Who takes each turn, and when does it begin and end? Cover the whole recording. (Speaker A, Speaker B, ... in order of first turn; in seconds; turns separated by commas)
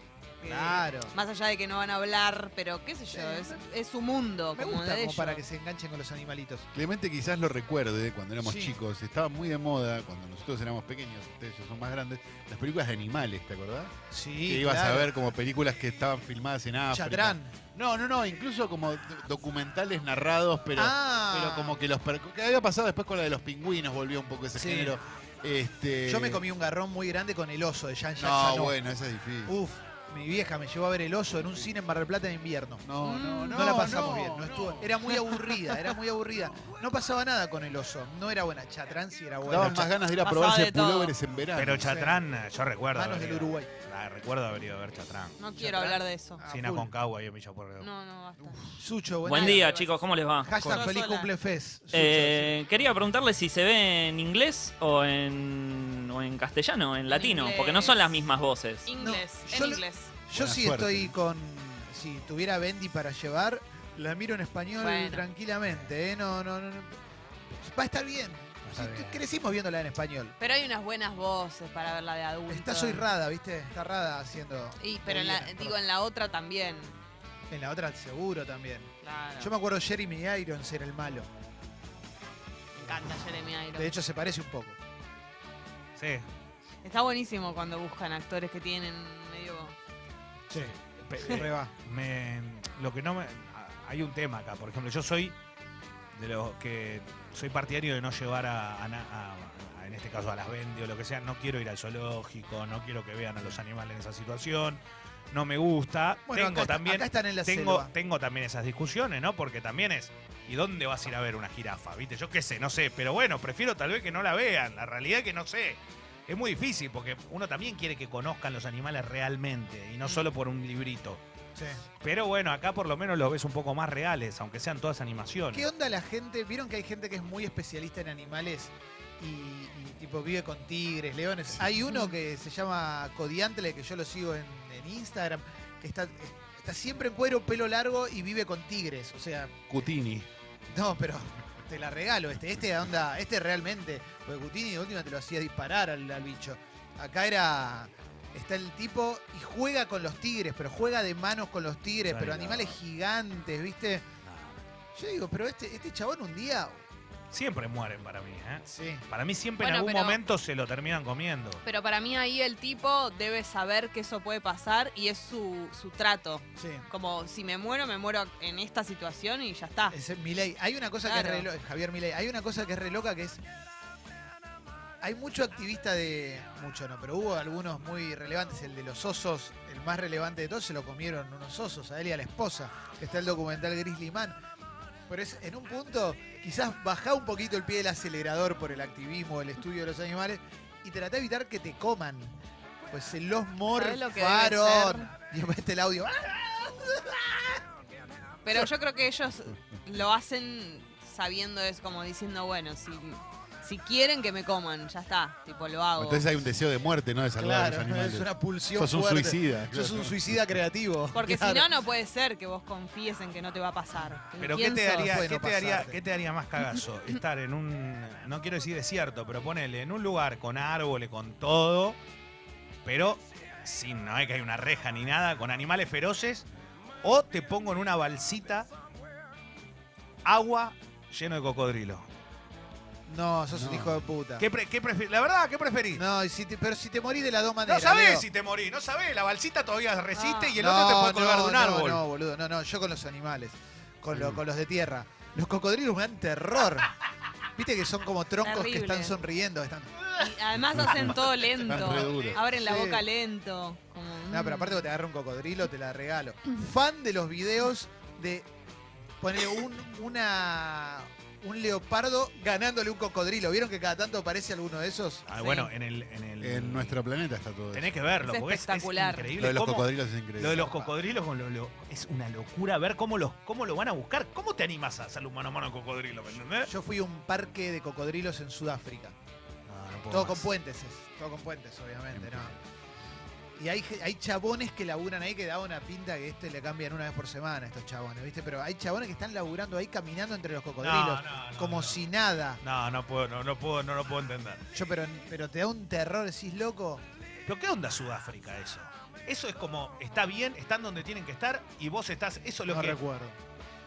Speaker A: 0.4-5.5, Speaker B: 0.5-1.1, Speaker B: 3.1-3.6, Speaker B: 4.5-6.7, Speaker C: 6.7-13.9, Speaker B: 8.4-8.8, Speaker B: 14.1-15.1, Speaker C: 14.4-26.4, Speaker B: 16.9-17.5, Speaker B: 20.8-21.8, Speaker B: 24.6-25.0, Speaker B: 26.1-28.8, Speaker C: 28.2-29.6, Speaker B: 29.5-32.8, Speaker C: 32.8-35.8, Speaker A: 33.0-33.9, Speaker B: 33.5-40.0, Speaker C: 36.4-36.7, Speaker C: 39.5-42.0, Speaker A: 40.2-41.1, Speaker D: 41.5-45.4, Speaker B: 41.8-42.2, Speaker B: 42.9-43.7, Speaker A: 45.4-46.4, Speaker B: 45.6-46.9, Speaker D: 46.5-47.9, Speaker A: 47.8-48.6, Speaker B: 48.8-49.7, Speaker E: 49.2-50.5, Speaker A: 49.4-51.3, Speaker B: 50.4-52.6, Speaker E: 51.9-58.9, Speaker A: 57.1-58.2, Speaker A: 58.8-60.1, Speaker B: 59.0-67.0, Speaker C: 60.3-61.1, Speaker A: 64.8-65.3, Speaker D: 65.7-65.9, Speaker B: 67.5-70.4, Speaker D: 68.6-69.2, Speaker A: 70.4-73.1, Speaker B: 72.5-75.8, Speaker A: 74.8-77.0, Speaker B: 77.5-81.3, Speaker A: 79.0-79.5, Speaker A: 82.8-83.9, Speaker B: 83.7-84.8, Speaker D: 86.0-86.2, Speaker A: 86.8-89.8, Speaker B: 90.5-91.7, Speaker D: 90.5-95.4, Speaker D: 96.1-121.2, Speaker B: 106.3-107.9, Speaker B: 121.6-121.8, Speaker D: 122.0-125.7, Speaker B: 125.5-139.9, Speaker C: 139.7-140.3, Speaker B: 140.7-154.1, Speaker D: 152.1-152.8, Speaker D: 154.2-154.6, Speaker B: 154.9-156.8, Speaker D: 157.3-161.6, Speaker B: 158.7-159.1, Speaker A: 159.6-160.2, Speaker A: 161.6-170.0, Speaker B: 166.6-166.9, Speaker B: 169.9-173.4, Speaker A: 171.0-171.5, Speaker B: 175.0-184.4, Speaker B: 185.1-192.4, Speaker B: 192.9-197.6, Speaker A: 193.7-195.1, Speaker A: 198.4-206.3, Speaker C: 206.0-210.2, Speaker B: 207.4-211.7, Speaker A: 211.1-215.2, Speaker D: 214.4-222.0, Speaker B: 214.5-216.0, Speaker D: 222.8-226.5, Speaker D: 227.0-228.7, Speaker D: 230.2-232.1, Speaker B: 233.1-234.5, Speaker C: 233.5-234.1, Speaker D: 234.4-236.0, Speaker B: 235.9-238.3, Speaker D: 237.7-242.0, Speaker A: 240.2-240.5, Speaker B: 240.6-246.9, Speaker C: 244.1-244.4, Speaker B: 247.5-250.1, Speaker A: 248.4-249.2, Speaker A: 250.2-254.9, Speaker C: 250.7-252.4, Speaker B: 251.7-253.1, Speaker B: 254.3-258.5, Speaker B: 259.2-265.2, Speaker D: 265.3-267.0, Speaker A: 265.4-265.7, Speaker C: 266.4-267.9, Speaker D: 267.7-276.7, Speaker A: 268.2-269.3, Speaker C: 269.4-270.7, Speaker B: 270.4-270.9, Speaker B: 276.6-279.2, Speaker D: 279.7-280.5, Speaker B: 280.1-282.6, Speaker C: 282.1-282.6, Speaker B: 283.6-292.6, Speaker D: 290.8-292.0, Speaker D: 292.6-294.6, Speaker B: 294.7-297.0, Speaker D: 297.5-303.0, Speaker B: 302.7-303.4